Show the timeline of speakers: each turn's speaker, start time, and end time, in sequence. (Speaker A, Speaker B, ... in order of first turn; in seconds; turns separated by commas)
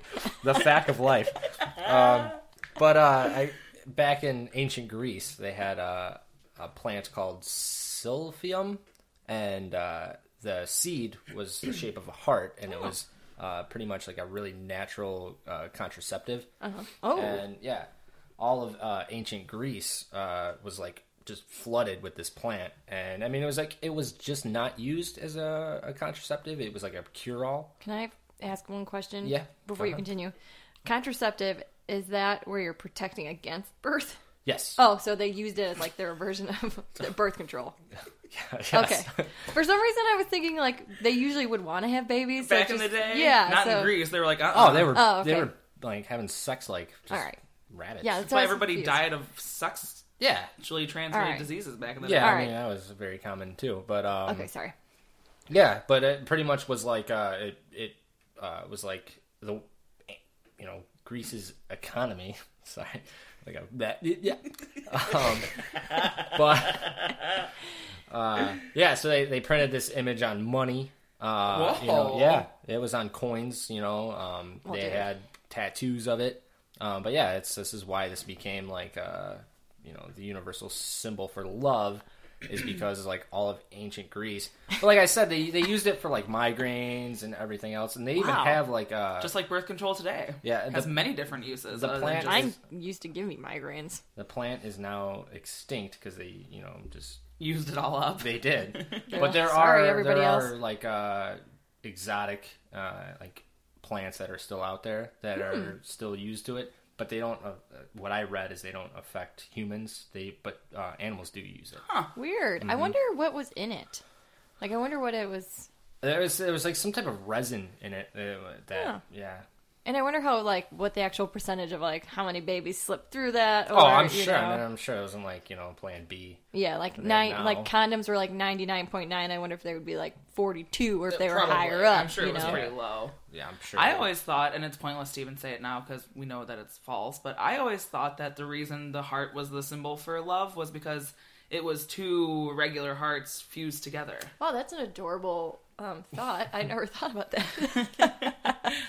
Speaker A: 0.4-16.5, Speaker B: 16.6-17.4, Speaker A: 17.1-27.7, Speaker B: 27.8-30.3, Speaker A: 29.2-30.0, Speaker B: 30.9-34.2, Speaker A: 34.5-34.8, Speaker B: 34.8-37.8, Speaker A: 38.3-39.3, Speaker B: 38.7-44.1, Speaker C: 42.4-45.0, Speaker A: 44.5-48.3, Speaker B: 44.8-45.5, Speaker B: 47.1-47.4, Speaker B: 48.0-49.1, Speaker C: 48.2-50.1, Speaker A: 50.2-50.5, Speaker C: 50.6-52.5, Speaker B: 51.1-51.5, Speaker A: 52.0-54.5, Speaker B: 52.1-52.5, Speaker B: 54.3-54.7, Speaker A: 55.5-67.2, Speaker A: 68.1-89.3, Speaker C: 71.5-72.5, Speaker B: 74.7-75.1, Speaker B: 88.2-88.6, Speaker C: 89.2-92.5, Speaker A: 90.4-91.1, Speaker A: 91.7-92.5, Speaker B: 92.1-94.0, Speaker A: 94.2-97.2, Speaker C: 97.4-99.2, Speaker A: 98.2-111.8, Speaker B: 99.1-100.5, Speaker B: 105.4-105.7, Speaker C: 111.9-112.1, Speaker B: 112.2-114.0, Speaker A: 112.6-112.9, Speaker B: 114.6-115.7, Speaker A: 116.0-119.5, Speaker B: 118.7-119.0, Speaker B: 119.8-124.7, Speaker A: 123.7-126.5, Speaker B: 126.5-132.7, Speaker A: 127.0-127.7, Speaker C: 131.1-133.2, Speaker A: 132.2-132.7, Speaker A: 133.3-134.1, Speaker C: 133.8-144.3, Speaker B: 144.4-148.4, Speaker C: 148.0-148.3